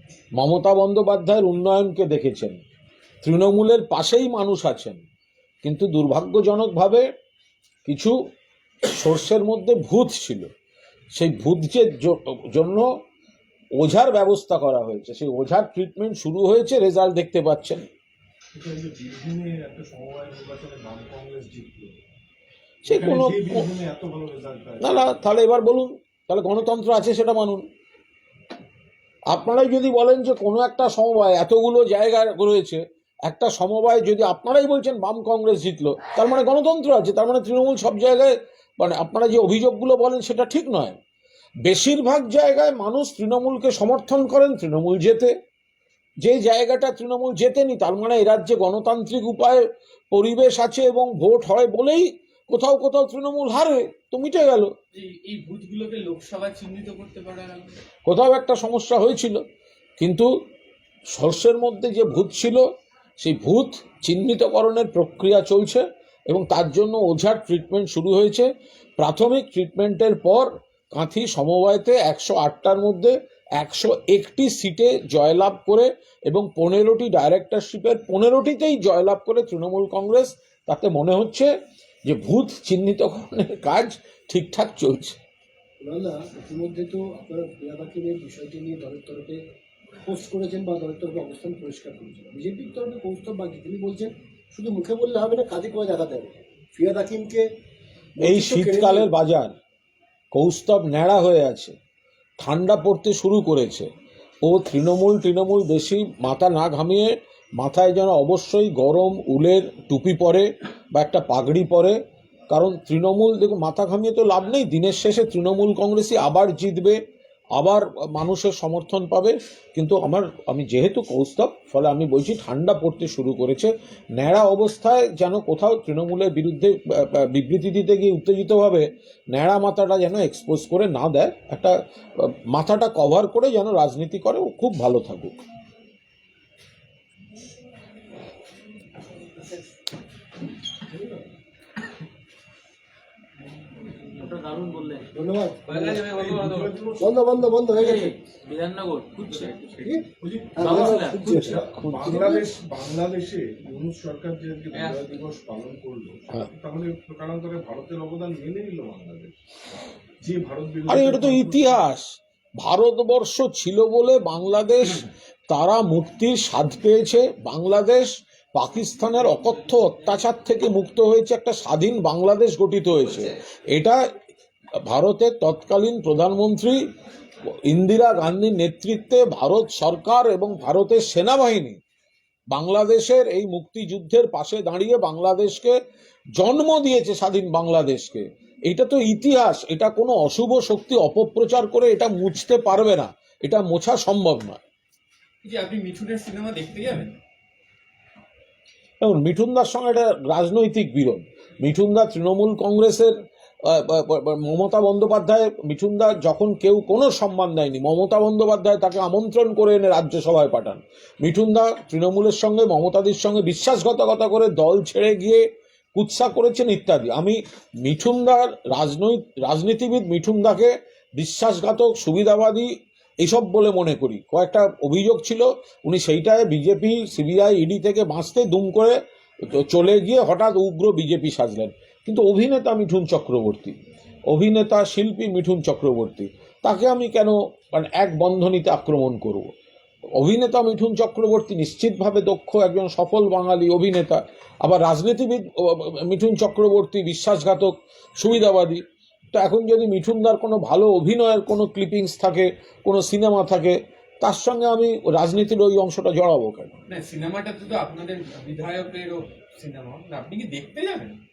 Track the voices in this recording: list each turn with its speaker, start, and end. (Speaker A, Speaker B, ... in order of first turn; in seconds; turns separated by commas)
Speaker A: 0.4-2.6, Speaker A: 3.2-5.0, Speaker A: 5.6-7.1, Speaker A: 7.8-8.2, Speaker A: 8.8-10.5, Speaker A: 11.2-12.9, Speaker A: 13.8-17.9, Speaker B: 18.5-22.0, Speaker A: 22.9-23.7, Speaker B: 22.9-24.9, Speaker A: 24.8-27.6, Speaker A: 29.3-41.0, Speaker A: 41.6-45.3, Speaker A: 46.2-54.7, Speaker C: 54.9-57.8, Speaker A: 58.1-59.4, Speaker A: 60.0-60.3, Speaker A: 61.1-62.6, Speaker A: 63.2-81.5, Speaker A: 82.0-85.2, Speaker D: 85.8-89.4, Speaker D: 90.0-97.5, Speaker D: 98.2-99.1, Speaker A: 98.2-99.5, Speaker A: 100.3-101.7, Speaker A: 102.4-103.9, Speaker A: 104.4-112.0, Speaker A: 112.5-117.0, Speaker A: 117.5-135.4, Speaker E: 144.0-145.1, Speaker D: 145.1-146.0, Speaker C: 145.7-146.8, Speaker B: 146.1-147.1, Speaker D: 147.0-148.1, Speaker E: 147.8-150.0, Speaker C: 149.1-149.9, Speaker D: 149.8-152.1, Speaker B: 150.2-159.3, Speaker E: 150.6-152.3, Speaker A: 151.3-152.2, Speaker C: 154.7-155.1, Speaker B: 160.2-161.8, Speaker A: 160.9-174.0, Speaker A: 174.8-176.8, Speaker A: 177.6-181.8, Speaker A: 182.5-185.8, Speaker A: 186.4-194.6, Speaker C: 195.4-197.1, Speaker A: 199.0-215.4, Speaker A: 215.9-222.7, Speaker A: 223.2-233.8, Speaker A: 234.3-239.5, Speaker A: 240.2-256.8, Speaker C: 256.9-261.1